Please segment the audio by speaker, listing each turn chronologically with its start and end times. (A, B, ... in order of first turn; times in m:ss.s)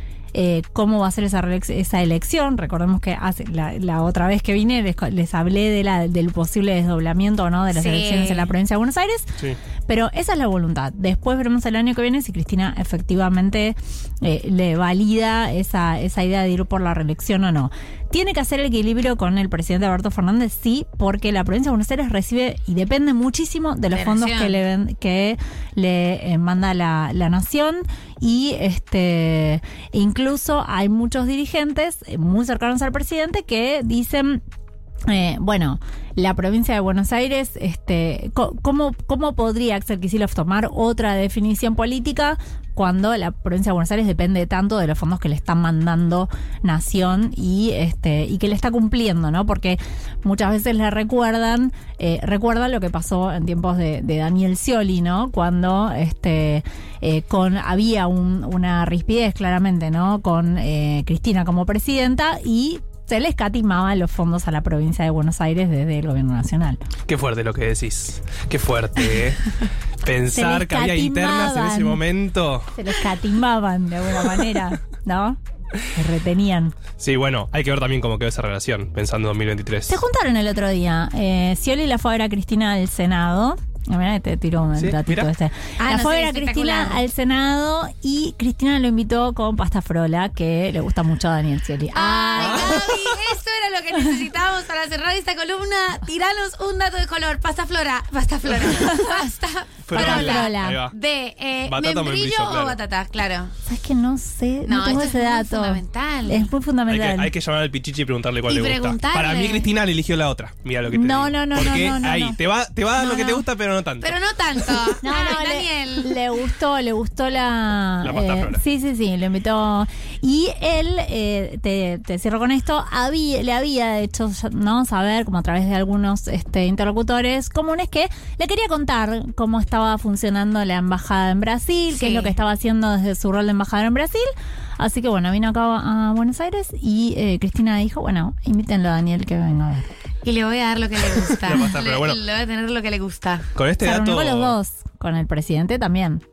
0:00.3-0:09.4 A
0:07.7-0:08.6 B
0:09.9-0:34.4 A
0:23.9-0:24.6 B
0:35.1-1:06.8 A
1:07.1-1:12.8 C
1:10.3-1:12.0 A
1:12.7-1:15.4 A
1:15.9-1:16.8 A
1:17.0-1:20.0 C
1:19.9-1:32.8 A
1:24.8-1:25.3 C
1:25.8-1:27.0 B
1:31.9-1:43.5 B
1:32.4-1:33.1 C
1:38.7-1:39.1 A
1:39.8-1:41.0 C
1:39.9-1:40.8 A
1:41.7-1:42.8 C
1:43.7-1:47.3 A
1:44.6-1:46.5 B
1:46.9-1:55.0 C
1:48.4-1:49.7 B
1:50.9-1:52.4 A
1:53.0-1:53.4 B
1:54.0-1:56.1 B
1:55.0-2:19.9 A
1:58.0-1:58.6 C
2:11.9-2:12.4 B
2:20.2-2:23.5 B
2:21.4-2:22.2 C
2:23.6-2:24.6 C
2:23.8-2:26.2 A